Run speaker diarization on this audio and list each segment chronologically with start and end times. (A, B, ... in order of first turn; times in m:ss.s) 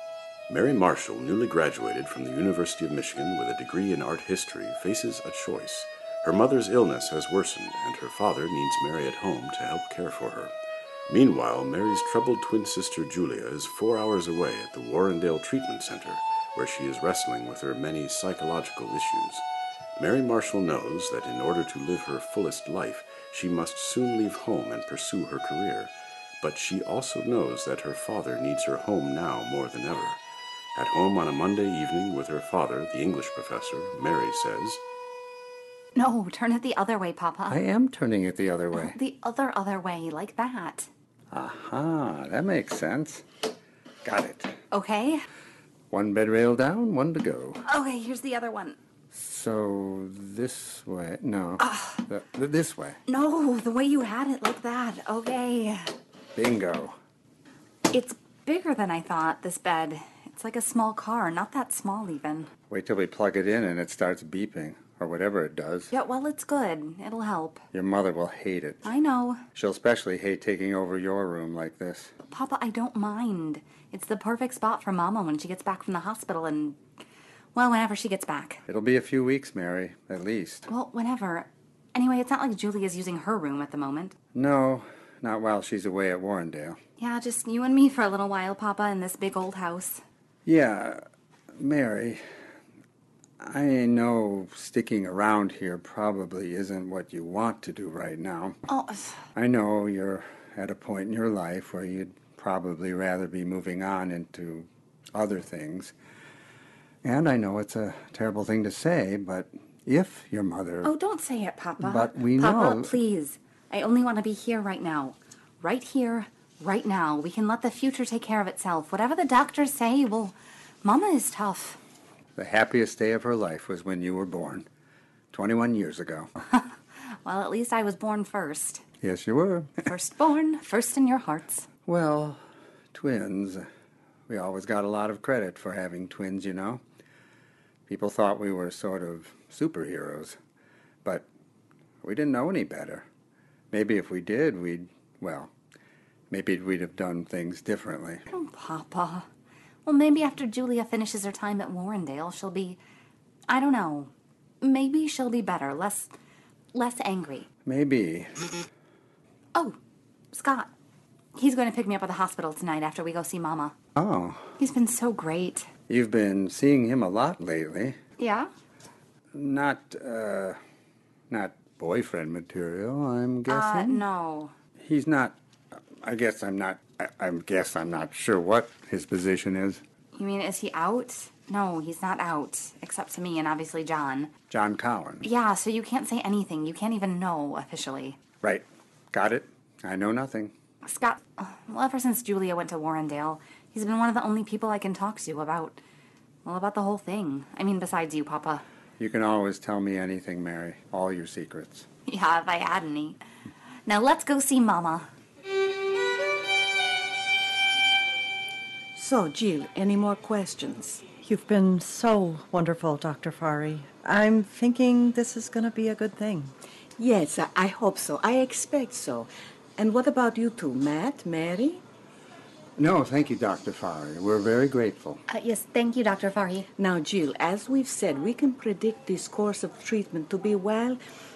0:00.5-0:10.5 A
0:11.1-0:19.4 A
0:20.0-0:30.2 A
0:30.8-0:34.8 A
0:36.0-0:37.6 B
0:37.5-0:39.0 C
0:38.8-0:40.9 B
0:41.3-0:43.2 C
0:44.0-0:44.6 C
0:44.7-0:45.2 B
0:45.9-0:47.6 C
0:47.6-0:48.8 B
0:49.1-0:53.0 C
0:51.6-0:52.0 B
0:53.1-0:55.9 B
0:56.4-0:57.0 C
0:57.9-1:02.5 B
1:02.7-1:05.9 C
1:05.9-1:07.6 B
1:07.7-1:08.9 C
1:08.8-1:09.4 B
1:09.5-1:12.1 C
1:12.2-1:16.8 B
1:17.6-1:18.6 B
1:18.7-1:20.7 C
1:20.7-1:24.1 B
1:24.3-1:26.8 C
1:27.0-1:30.0 B
1:30.4-1:31.0 C
1:31.6-1:32.2 C
1:33.4-1:38.6 C
1:38.7-1:39.2 B
1:39.4-1:45.9 C
1:47.0-1:50.9 C
1:50.8-2:01.8 B
1:51.8-1:53.0 C
2:02.4-2:04.7 C
2:05.3-2:06.3 C
2:07.2-2:08.8 B
2:09.0-2:09.8 C
2:09.8-2:11.7 B
2:11.9-2:12.4 C
2:12.9-2:13.7 C
2:14.3-2:16.8 C
2:17.9-2:20.4 C
2:22.0-2:23.0 C
2:23.7-2:25.5 C
2:26.3-2:28.2 C
2:28.3-2:29.2 B
2:29.8-2:32.8 B
2:33.5-2:36.1 B
2:36.7-2:37.5 B
2:37.7-2:38.5 C
2:40.3-2:40.7 B
2:41.4-2:43.8 B
2:44.0-2:44.5 C
2:44.6-2:45.7 B
2:45.9-2:48.0 C
2:48.2-2:48.5 B
2:49.3-2:50.6 C
2:51.3-2:54.0 C
2:53.5-2:54.5 B
2:54.8-2:59.8 C
3:00.2-3:04.3 B
3:04.5-3:05.2 C
3:05.2-3:08.2 B
3:08.4-3:10.5 C
3:10.8-3:15.8 B
3:16.4-3:18.6 B
3:19.0-3:21.9 C
3:22.1-3:23.2 B
3:23.9-3:25.1 B
3:29.0-3:31.0 D
3:31.2-3:36.6 E
3:37.0-3:41.8 D
3:42.8-3:45.2 C
3:45.3-3:46.7 B
3:46.8-3:51.0 D